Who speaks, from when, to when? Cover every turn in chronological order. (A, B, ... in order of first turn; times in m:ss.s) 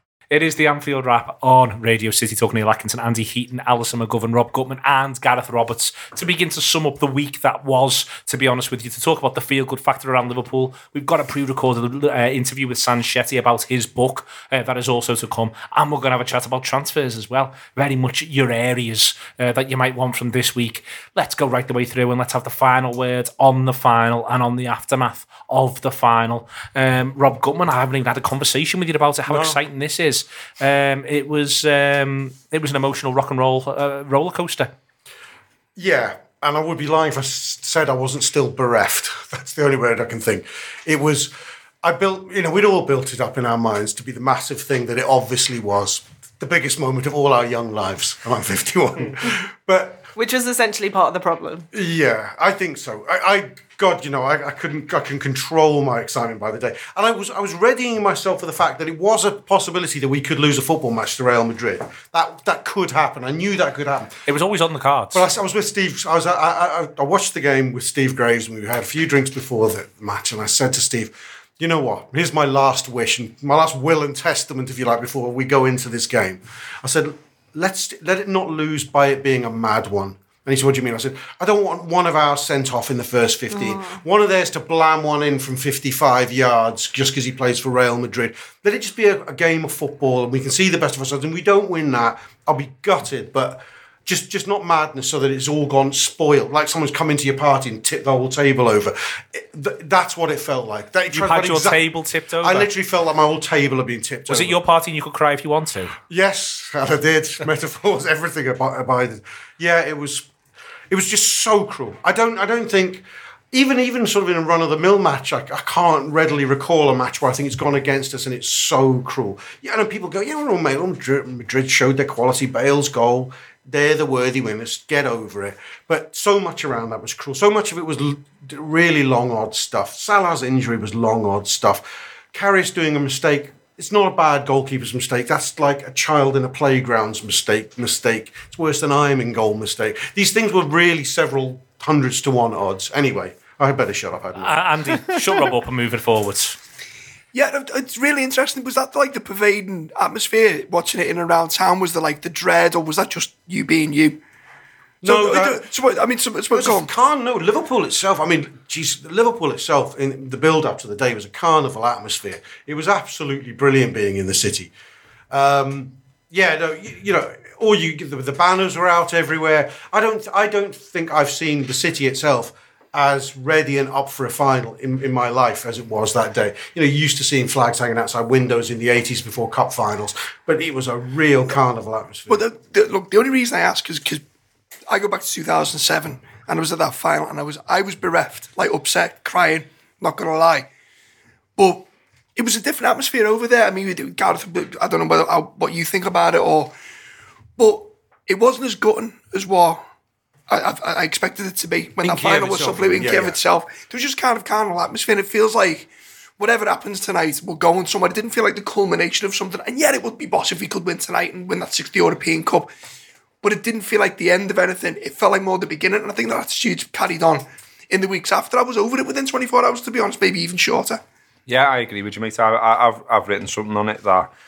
0:00.3-0:34.7 A
0:29.3-0:29.6 B
0:35.8-0:50.1 B
0:50.1-0:51.7 C
0:51.7-1:04.2 B
1:04.3-1:05.3 A
1:05.1-1:44.6 B
1:23.5-1:24.0 C
1:41.1-1:42.7 A
1:44.3-1:46.0 A
1:46.1-1:50.3 B
1:50.9-2:25.0 B
2:24.4-2:26.6 A
2:27.3-2:34.2 D
2:35.0-2:35.6 B
2:35.0-2:36.9 D
2:36.5-2:44.7 B
2:45.3-3:02.4 B
3:02.3-3:04.2 D
3:04.9-3:10.7 D
3:11.6-3:16.7 D
3:17.6-3:19.8 D
3:20.5-3:32.7 D
3:22.0-3:23.4 B
3:33.4-3:41.0 D
3:41.5-3:44.3 E